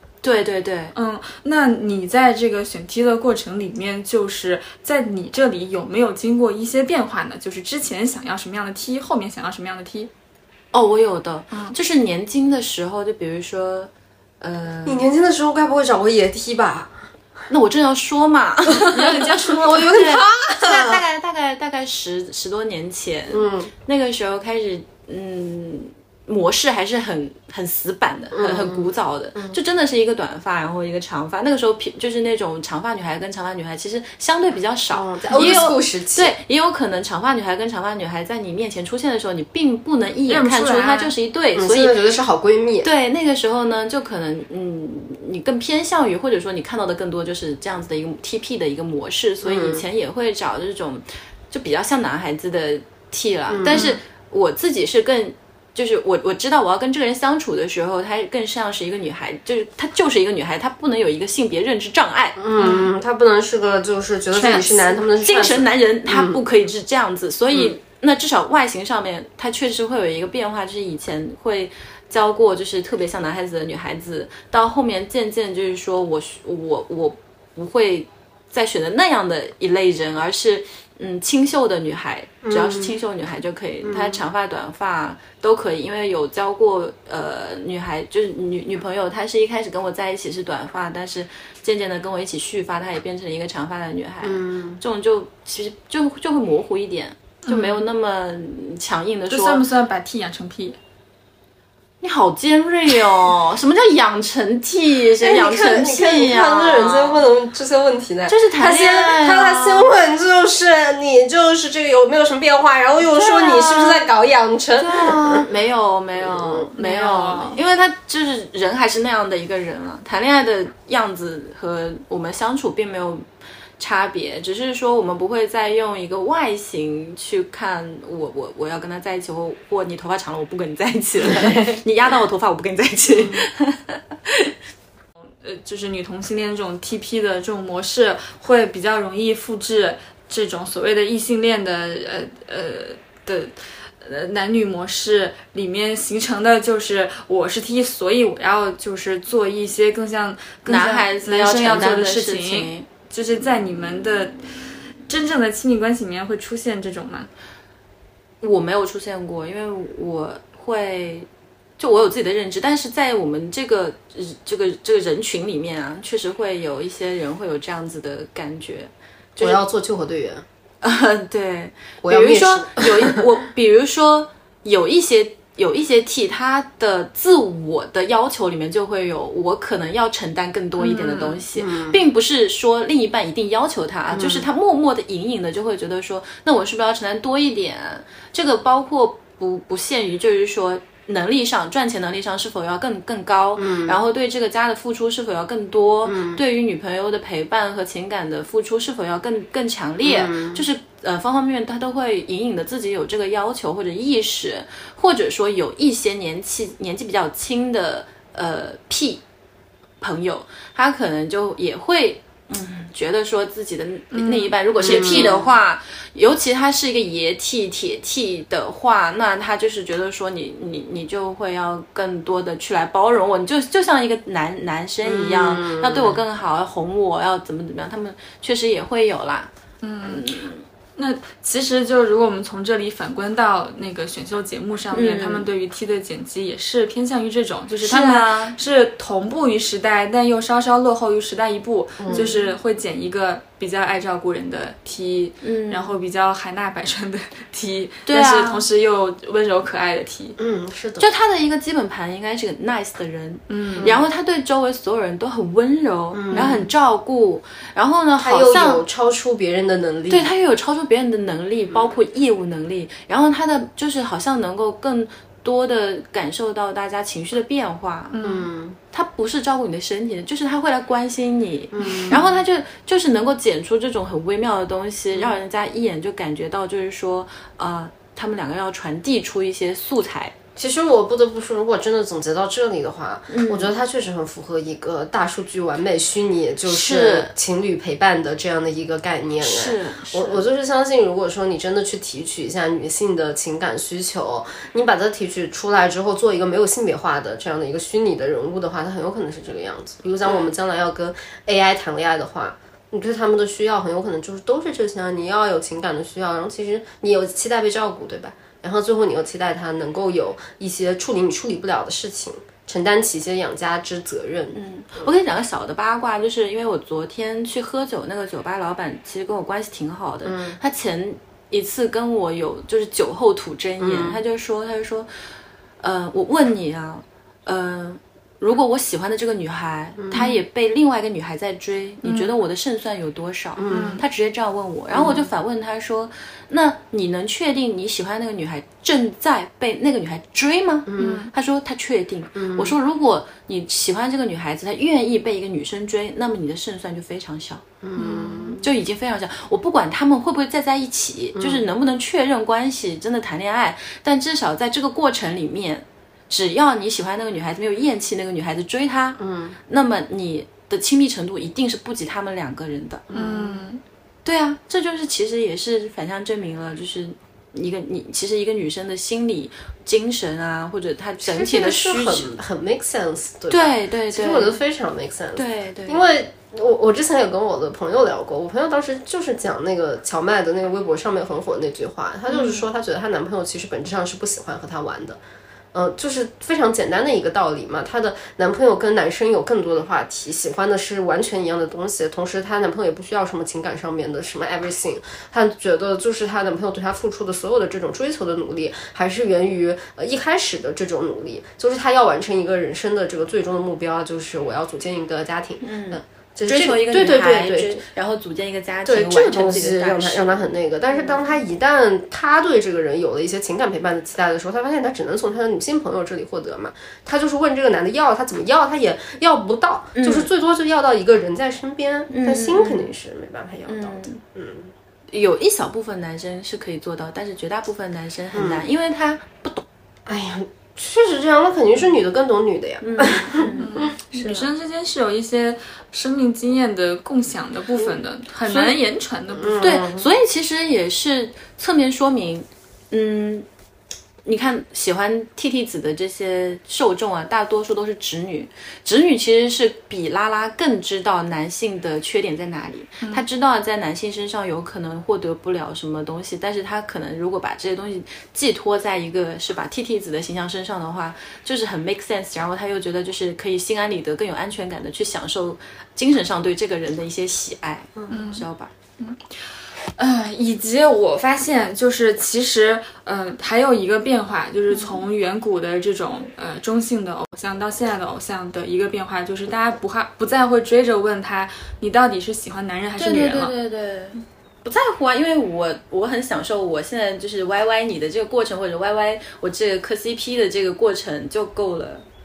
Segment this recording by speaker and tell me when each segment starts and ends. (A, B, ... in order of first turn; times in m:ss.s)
0:00.2-0:00.9 A
0:01.0-0:10.1 B
0:10.7-0:15.1 A
0:14.8-0:16.9 C
0:17.5-0:42.1 A
0:18.8-0:21.0 C
0:18.9-0:19.9 B
0:23.3-0:23.7 C
0:28.3-0:29.6 C
0:34.9-0:36.3 C
0:40.3-0:41.1 B
0:41.6-0:42.9 C
0:42.8-1:02.4 A
0:49.4-0:49.8 C
0:53.5-0:53.9 C
0:53.7-0:54.0 B
1:02.4-1:06.4 C
1:02.6-1:02.9 B
1:04.4-1:39.6 A
1:22.4-1:23.0 C
1:23.8-1:24.2 C
1:34.2-1:34.8 C
1:37.5-1:37.8 B
1:39.3-1:40.8 B
1:42.0-1:47.2 A
1:45.2-1:55.5 C
1:48.3-1:49.9 A
1:53.0-1:54.1 A
1:54.8-2:03.2 A
1:56.2-1:56.7 C
1:56.8-1:57.6 B
2:03.8-2:14.5 A
2:13.1-2:13.5 C
2:15.4-2:34.5 B
2:30.7-2:32.9 A
2:35.1-2:37.3 B
2:38.4-2:41.3 A
2:41.8-2:49.6 A
2:49.4-2:50.4 C
2:50.8-3:29.2 A
2:52.0-2:53.3 C
3:00.8-3:01.4 B
3:01.5-3:02.0 C
3:04.1-3:04.5 C
3:13.6-3:14.0 C
3:16.0-3:16.4 C
3:20.0-3:20.7 C
3:30.0-3:49.5 A
3:34.1-3:34.6 B
3:34.8-3:35.5 C
3:45.0-3:46.2 C
3:49.8-3:50.2 B
3:50.0-3:50.6 A
3:51.0-4:10.4 B
3:54.9-3:55.5 A
3:57.8-3:58.6 A
4:02.0-4:02.4 C
4:05.4-4:06.0 A
4:08.1-4:08.6 A
4:10.4-4:11.1 C
4:11.0-4:18.8 A
4:13.5-4:13.9 B
4:13.8-4:14.1 C
4:16.1-4:16.7 C
4:16.3-4:16.6 B
4:18.2-4:20.3 C
4:20.1-4:28.2 A
4:28.1-4:28.5 B
4:28.2-4:28.8 C
4:28.9-4:40.4 A
4:31.8-4:32.4 C
4:40.6-5:15.1 C
4:43.3-4:43.7 A
4:46.7-4:47.3 A
4:49.4-4:50.4 A
5:14.5-5:25.1 A
5:20.2-5:20.6 C
5:23.8-5:24.2 C
5:25.8-5:47.6 A
5:30.0-5:30.4 C
5:33.6-5:34.0 C
5:33.7-5:34.0 B
5:34.9-5:35.3 C
5:40.9-5:41.2 C
5:41.0-5:41.3 B
5:42.4-5:42.8 C
5:47.8-5:48.7 C
5:48.0-5:48.6 B
5:48.6-6:03.1 A
5:51.4-5:51.6 C
5:59.2-5:59.6 C
6:03.1-6:03.6 C
6:03.1-6:03.8 B
6:04.2-6:12.4 A
6:11.2-6:25.2 C
6:13.5-6:14.5 A
6:15.4-6:16.0 A
6:25.7-6:47.8 C
6:45.6-6:50.5 A
6:48.9-7:04.7 C
7:00.0-7:00.3 A
7:02.1-7:02.9 A
7:03.7-7:04.2 A
7:05.1-7:09.6 A
7:08.3-7:08.6 C
7:10.1-7:13.6 C
7:12.8-7:14.5 A
7:13.6-7:19.7 B
7:18.5-7:18.8 A
7:19.3-7:20.1 C
7:19.6-7:23.5 A
7:24.2-7:48.7 A
7:48.1-7:48.5 B
7:50.0-8:03.5 B
7:54.7-7:55.0 A
8:03.0-8:12.0 A